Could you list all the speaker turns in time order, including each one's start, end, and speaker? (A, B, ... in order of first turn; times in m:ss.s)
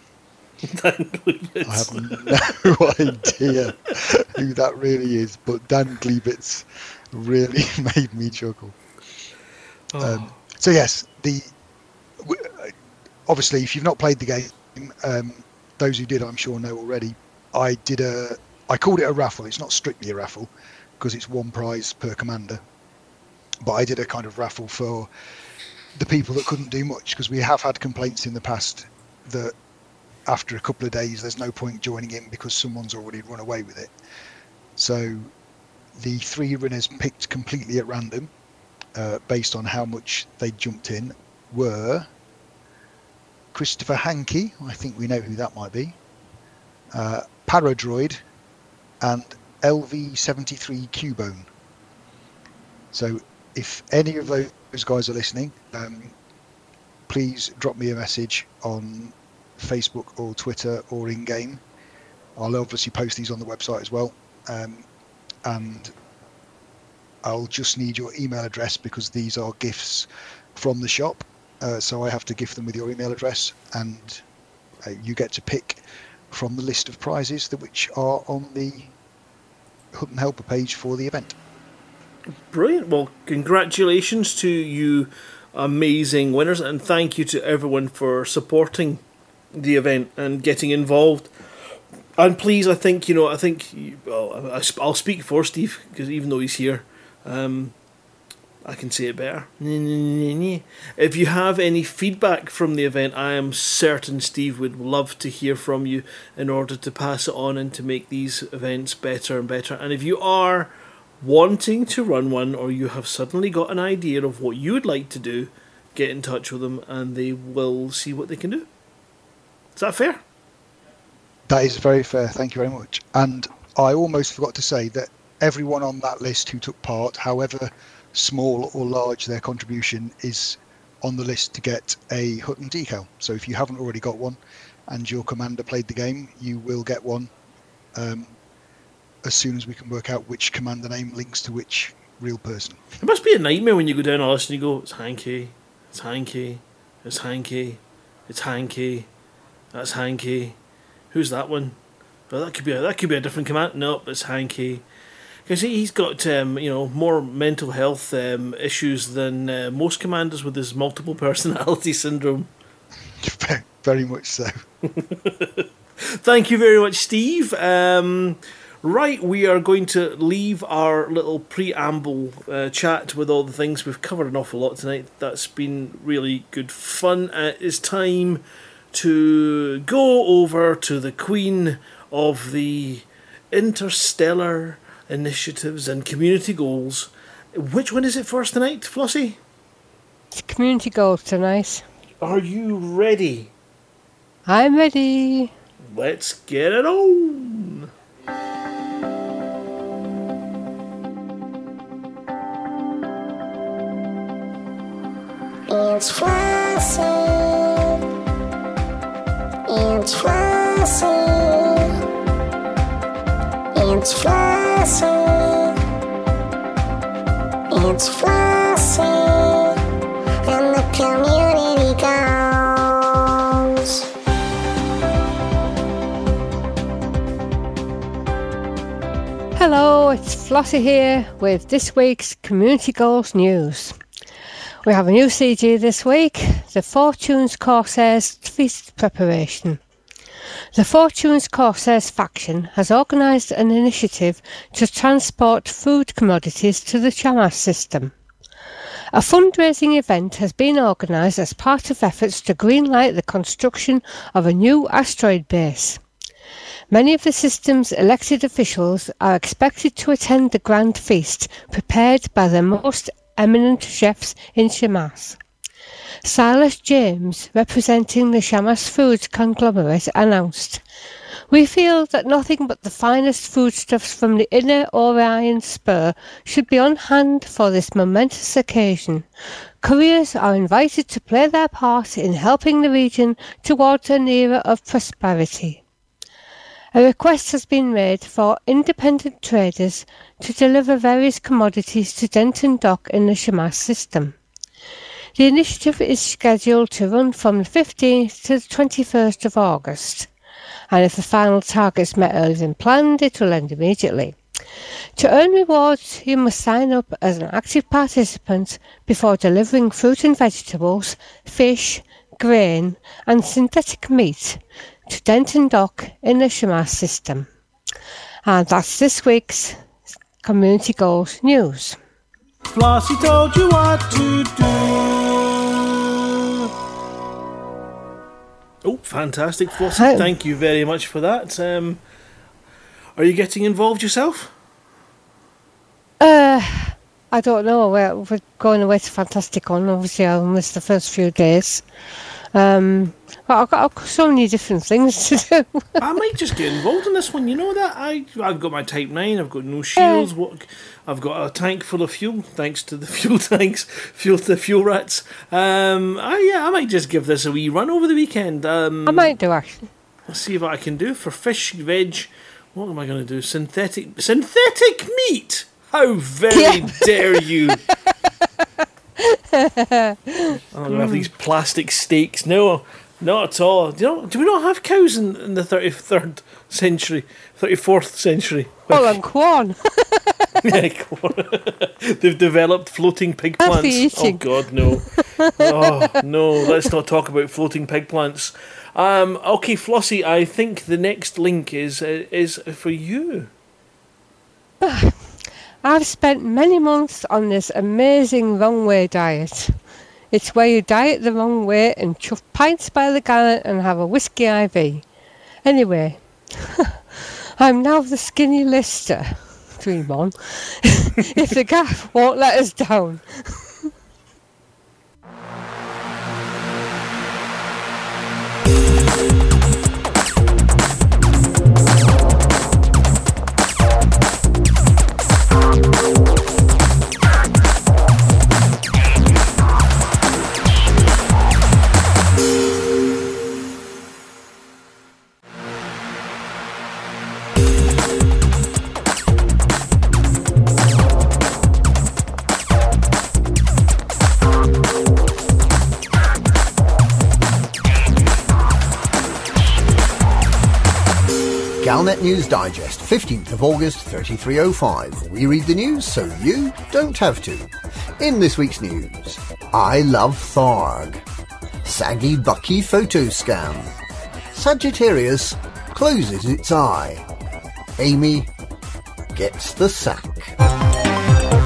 0:00.7-0:02.5 A
0:01.6-0:08.8 B
0:09.9-0:10.3 A
0:10.0-0:11.5 B
0:12.2-0:12.7 B
0:13.3-0:22.6 B
0:23.6-0:25.1 B
0:26.0-0:29.5 B
0:30.3-0:33.9 B
0:34.8-0:35.3 B
0:36.0-0:38.3 B
0:39.0-0:42.1 B
0:43.5-0:46.0 B
0:46.9-0:48.2 B
0:49.0-0:51.5 B
0:52.9-0:56.1 B
0:57.1-1:01.6 B
1:02.4-1:04.8 B
1:05.4-1:05.9 B
1:07.2-1:14.2 B
1:14.8-1:15.8 B
1:16.3-1:18.9 B
1:19.9-1:21.4 B
1:22.5-1:29.0 A
1:29.6-1:31.3 A
1:32.2-1:37.7 A
1:38.6-1:58.7 A
1:59.8-2:00.2 A
2:01.5-2:17.3 B
2:18.0-2:18.3 B
2:19.2-2:22.8 B
2:23.0-2:29.1 A
2:29.7-2:30.6 A
2:31.1-2:31.8 A
2:32.3-2:34.8 A
2:35.5-2:42.5 A
2:43.2-2:44.6 B
2:45.3-2:58.4 A
2:58.9-3:09.4 A
3:10.3-3:11.8 C
3:12.2-3:13.5 A
3:14.5-3:15.5 C
3:15.9-3:17.9 A
3:25.7-3:28.0 D
3:29.7-3:32.0 D
3:33.7-3:35.8 D
3:37.7-3:39.8 D
3:40.5-3:44.0 D
3:49.6-3:54.0 C
3:54.8-3:59.8 C
4:00.8-4:08.1 C
4:09.1-4:16.0 C
4:16.9-4:25.4 C
4:26.2-4:30.8 C
4:31.5-4:39.3 C
4:39.8-4:45.8 C
4:46.9-4:54.4 C
4:55.4-5:00.3 C
5:00.9-5:04.4 C
5:05.2-5:17.5 C
5:18.4-5:19.8 C
5:20.4-5:22.0 C
5:22.7-5:26.7 A
5:28.8-5:32.0 A
5:30.0-5:30.3 C
5:33.2-5:34.5 A
5:36.2-5:41.8 C
5:42.5-5:45.8 C
5:46.0-5:59.4 A
5:50.0-5:50.3 C
5:59.1-5:59.9 C
6:00.3-6:07.8 A
6:06.5-6:07.4 C
6:09.2-6:11.3 C
6:10.7-6:19.2 A
6:18.9-6:20.5 C
6:20.6-6:33.5 A
6:23.6-6:26.1 C
6:34.8-6:39.8 C
6:40.3-6:45.0 C
6:45.6-6:46.9 C
6:47.6-6:53.7 C
7:31.8-7:41.2 E
7:41.8-7:43.9 E
7:44.5-7:47.3 E
7:48.0-7:48.5 E
7:49.3-7:50.6 E